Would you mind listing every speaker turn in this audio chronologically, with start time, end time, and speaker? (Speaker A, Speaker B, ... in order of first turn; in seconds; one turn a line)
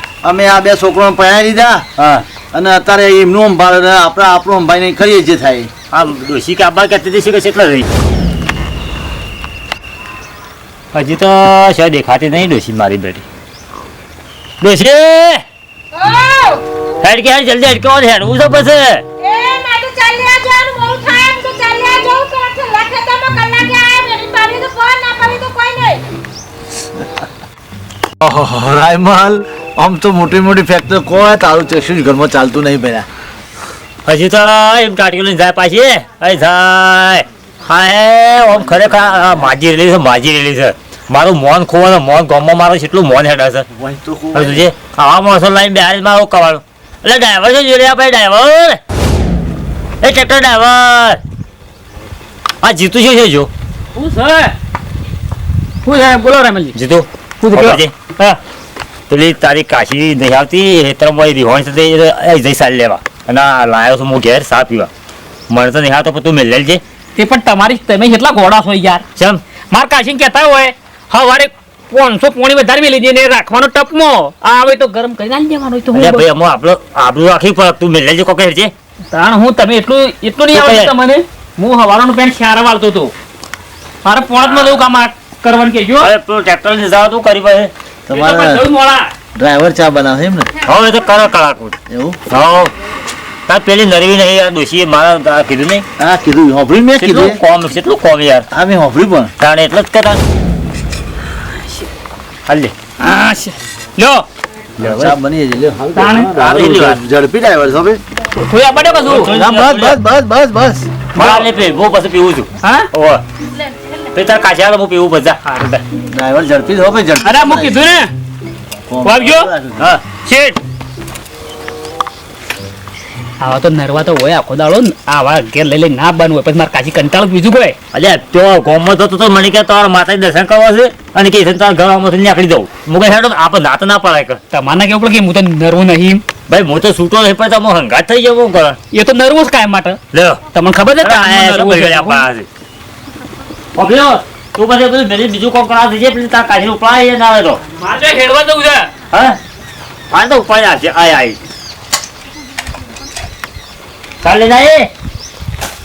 Speaker A: 0.2-1.9
Speaker B: 2.0-2.2
Speaker A: 2.5-5.7
Speaker B: 5.9-7.9
Speaker B: 10.9-13.2
Speaker B: 14.6-15.4
Speaker C: 15.9-16.6
Speaker B: 17.0-19.0
Speaker C: 19.2-26.0
Speaker A: 28.2-33.1
Speaker B: 34.1-43.7
Speaker A: 38.8-39.3
Speaker A: 43.7-44.7
Speaker B: 44.3-48.8
Speaker B: 50.0-51.2
Speaker B: 52.6-53.5
Speaker D: 54.0-54.5
Speaker D: 55.8-56.8
Speaker B: 56.8-57.9
Speaker D: 57.4-58.4
Speaker B: 59.1-64.9
Speaker B: 65.5-66.8
Speaker D: 67.2-69.0
Speaker B: 69.2-69.4
Speaker D: 69.7-76.2
Speaker B: 75.9-78.7
Speaker D: 79.1-83.1
Speaker B: 80.5-80.9
Speaker D: 84.0-86.1
Speaker B: 86.0-87.7
Speaker A: 88.1-88.7
Speaker D: 88.1-89.1
Speaker A: 89.4-90.5
Speaker B: 90.7-91.8
Speaker A: 91.9-92.2
Speaker B: 92.3-92.7
Speaker B: 93.5-95.8
Speaker A: 96.0-97.4
Speaker B: 97.0-98.5
Speaker A: 98.5-99.3
Speaker B: 99.4-100.2
Speaker B: 102.5-102.7
Speaker D: 103.0-104.2
Speaker B: 104.8-105.2
Speaker A: 104.8-108.0
Speaker D: 106.0-106.3
Speaker B: 106.3-107.0
Speaker D: 108.3-109.3
Speaker B: 109.1-110.0
Speaker A: 109.3-110.9
Speaker B: 111.2-113.2
Speaker D: 111.2-111.5
Speaker D: 112.6-112.9
Speaker B: 114.1-115.5
Speaker D: 115.5-115.8
Speaker A: 116.1-117.8
Speaker D: 117.2-118.1
Speaker A: 118.9-120.0
Speaker D: 119.0-119.5
Speaker D: 120.0-120.6
Speaker D: 123.4-127.8
Speaker B: 127.9-134.4
Speaker D: 134.5-136.2
Speaker B: 136.5-138.8
Speaker D: 138.9-140.0
Speaker B: 140.1-140.4
Speaker D: 140.5-142.2
Speaker B: 141.0-142.5
Speaker B: 143.8-147.6
Speaker D: 147.8-148.9
Speaker B: 149.1-149.4
Speaker B: 150.1-151.4
Speaker B: 154.2-154.9